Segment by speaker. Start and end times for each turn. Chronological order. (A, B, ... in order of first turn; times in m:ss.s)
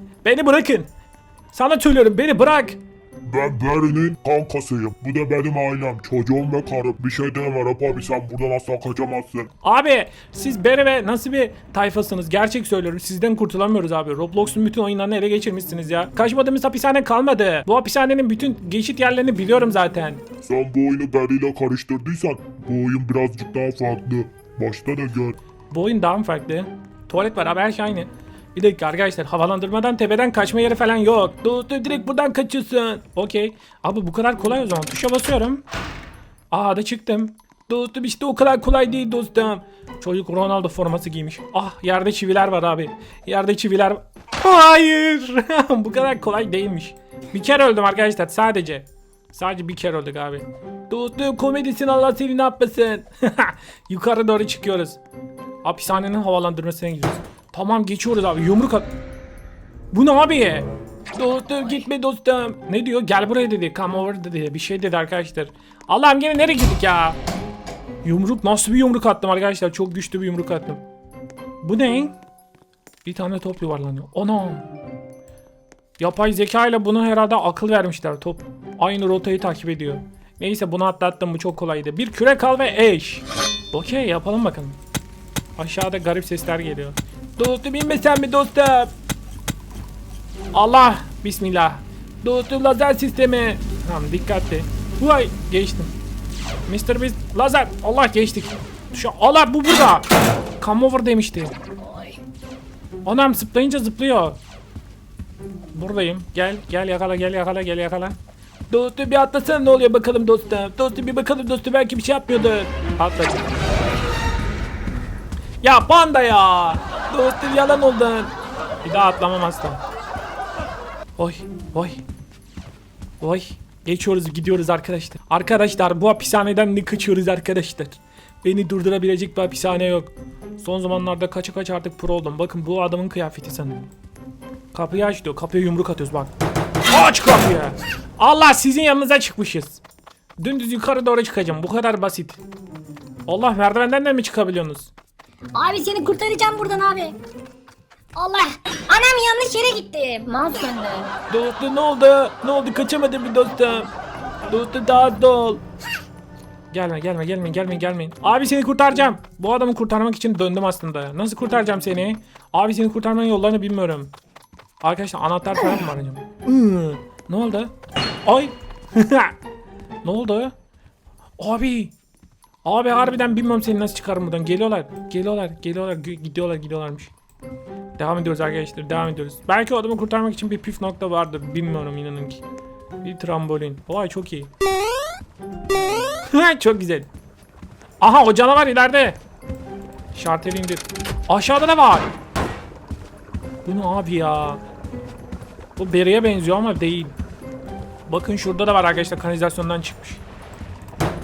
0:00.2-0:00.9 A
0:01.5-0:02.8 A
0:03.2-0:09.5 B
0:09.6-0:20.2 A
0:20.4-0:25.4 B
0:25.7-0:35.6 A
0:36.5-0:55.0 A
0:55.6-0:58.9 A
0:59.9-1:07.2 A
1:08.0-1:10.8 A
1:11.6-1:12.2 A
1:13.0-1:14.7 A
1:16.0-1:24.8 A
1:25.6-1:28.9 A
1:30.5-1:35.9 A
1:36.7-1:40.1 A
1:40.6-1:41.5 A
1:41.8-1:42.2 C
1:43.0-1:44.4 A
1:45.7-1:48.2 A
1:48.7-1:53.5 A
1:55.6-1:59.8 A
2:01.2-2:02.0 A
2:03.2-2:13.9 A
2:14.7-2:16.3 A
2:16.9-2:19.8 A
2:20.4-2:22.4 A
2:23.3-2:24.9 A
2:25.5-2:27.2 C
2:28.2-2:31.1 C
2:31.3-2:33.9 A
2:34.5-2:35.6 A
2:36.7-2:44.1 A
2:44.8-2:47.7 A
2:48.2-2:49.4 A
2:50.0-2:50.5 A
2:51.4-2:51.9 A
2:52.6-2:57.1 A
2:58.0-3:02.4 A
3:03.0-3:04.5 A
3:06.2-3:07.1 A
3:08.0-3:09.2 A
3:10.1-3:12.1 A
3:13.6-3:14.6 A
3:15.8-3:17.1 A
3:18.1-3:20.2 A